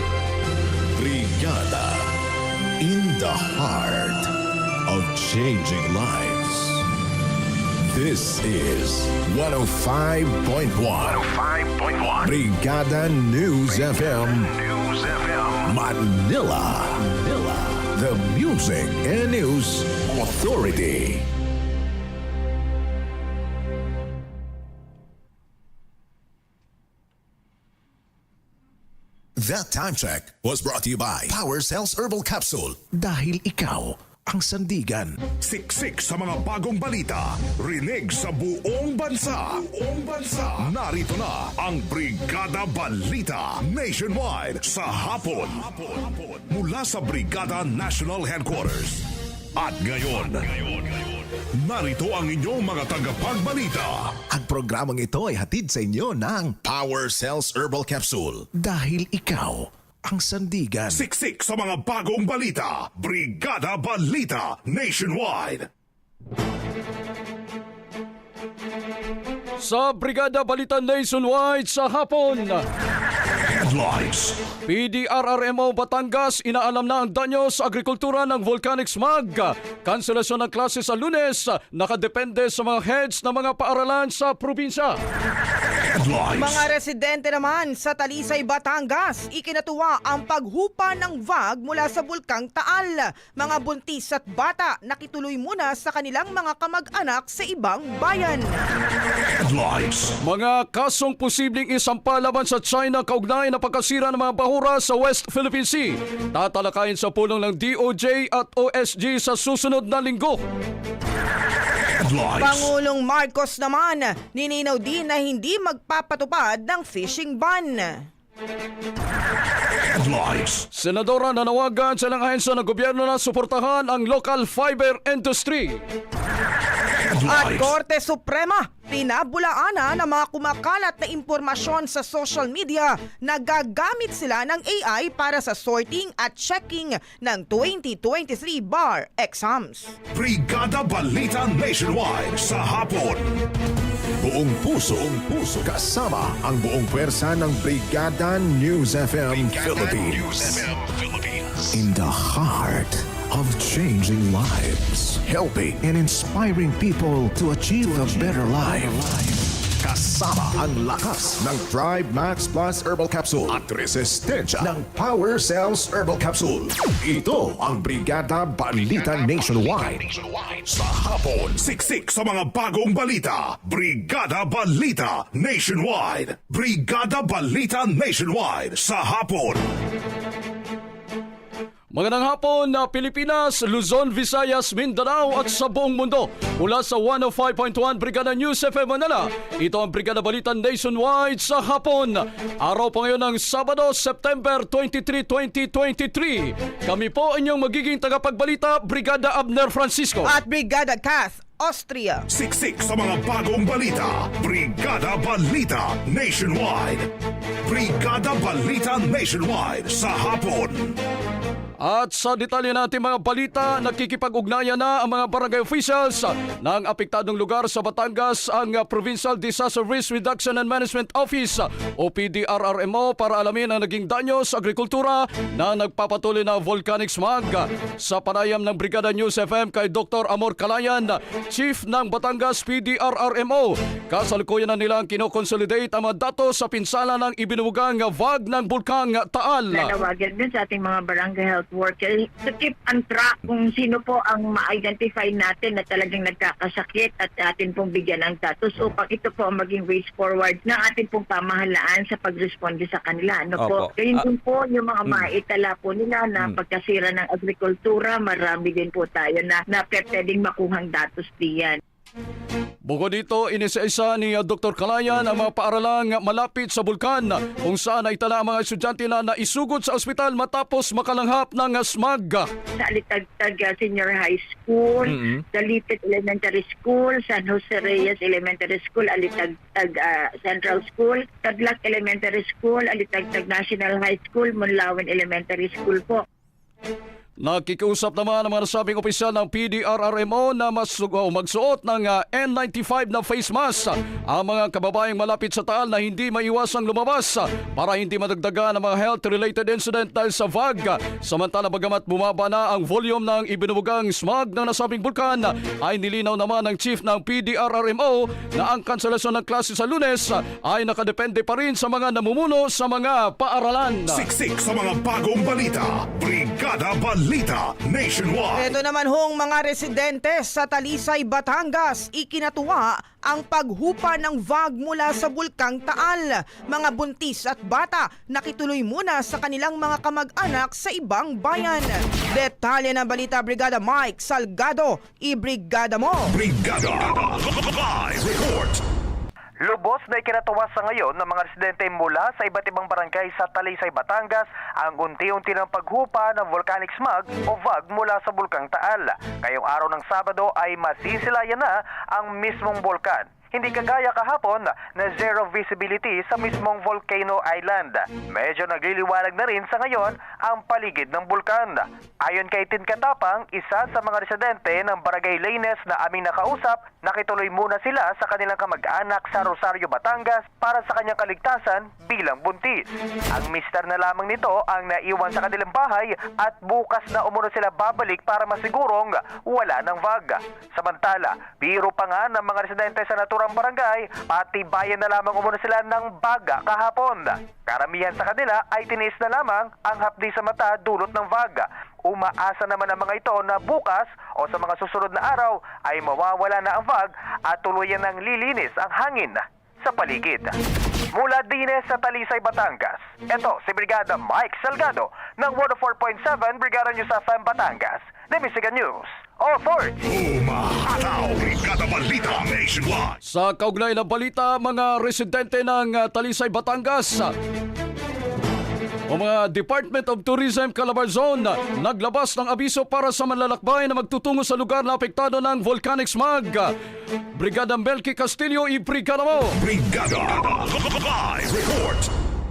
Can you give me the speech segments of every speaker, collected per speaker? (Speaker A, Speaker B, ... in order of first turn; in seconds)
Speaker A: 0.9-2.1, 2.8-4.3, 4.9-6.8, 7.9-11.2, 12.2-14.5, 15.6-21.3, 29.4-35.2, 54.3-61.0, 144.2-150.7, 151.7-170.0, 170.8-171.5
Speaker B: 11.1-12.3, 13.7-15.7, 149.3-151.8, 169.0-170.6, 253.6-253.9
Speaker C: 35.4-51.0, 51.6-54.1, 60.9-65.7, 73.4-74.4, 85.8-86.7, 99.2-100.2, 111.7-112.7, 119.6-120.7, 126.9-127.7, 140.1-143.3, 171.6-179.6, 202.3-207.1, 207.6-211.0, 314.1-318.7, 336.3-338.8, 410.0-413.2, 429.6-432.1
Speaker D: 69.6-72.6, 74.7-85.0, 100.2-110.4, 120.7-125.8, 181.9-200.4, 211.8-239.9, 262.9-272.5, 287.4-314.3, 413.2-417.3, 419.1-426.7, 427.4-429.6
Speaker E: 86.4-98.6, 112.4-118.0, 127.3-140.0, 200.2-202.2, 318.6-336.3
Speaker F: 239.7-261.8, 272.8-286.2
Speaker G: 339.6-400.5, 401.1-410.0